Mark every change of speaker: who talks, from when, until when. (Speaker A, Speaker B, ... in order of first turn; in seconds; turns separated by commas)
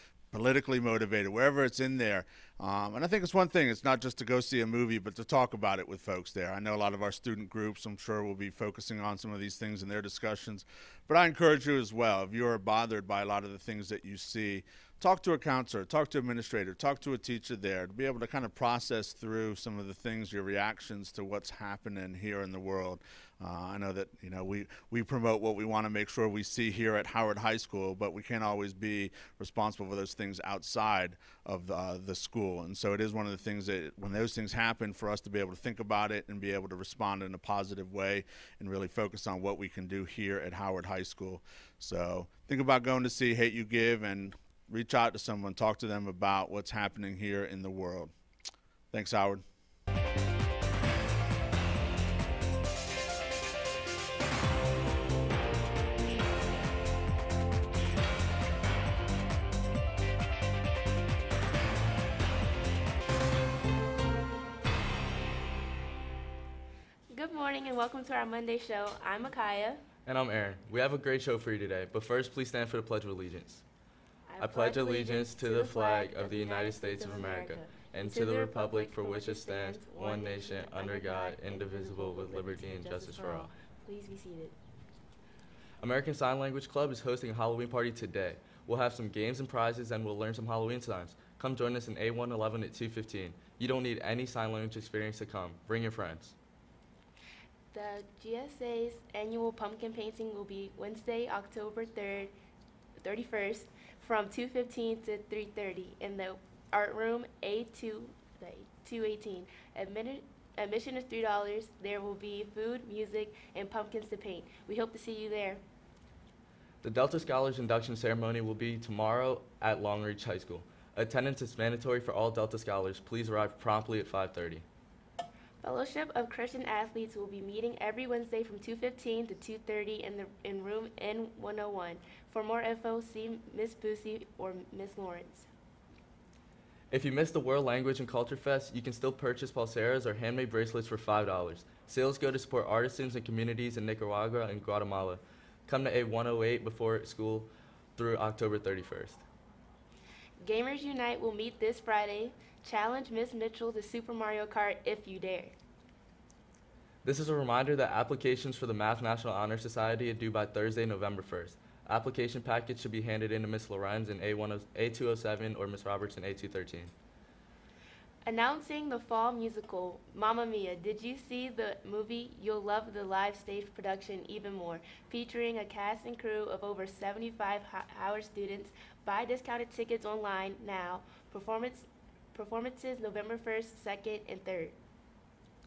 Speaker A: 0.3-48.1, Speaker A: 48.9-49.4, Speaker B: 67.1-69.8, Speaker C: 70.1-73.6, Speaker B: 74.3-84.5, Speaker C: 74.4-83.5, Speaker C: 85.8-96.4, Speaker B: 97.7-102.3, Speaker B: 103.0-115.6, Speaker C: 116.8-124.7, Speaker B: 125.6-135.5, Speaker C: 136.9-149.2, Speaker B: 150.4-155.6, Speaker C: 157.0-166.9, Speaker B: 168.2-184.8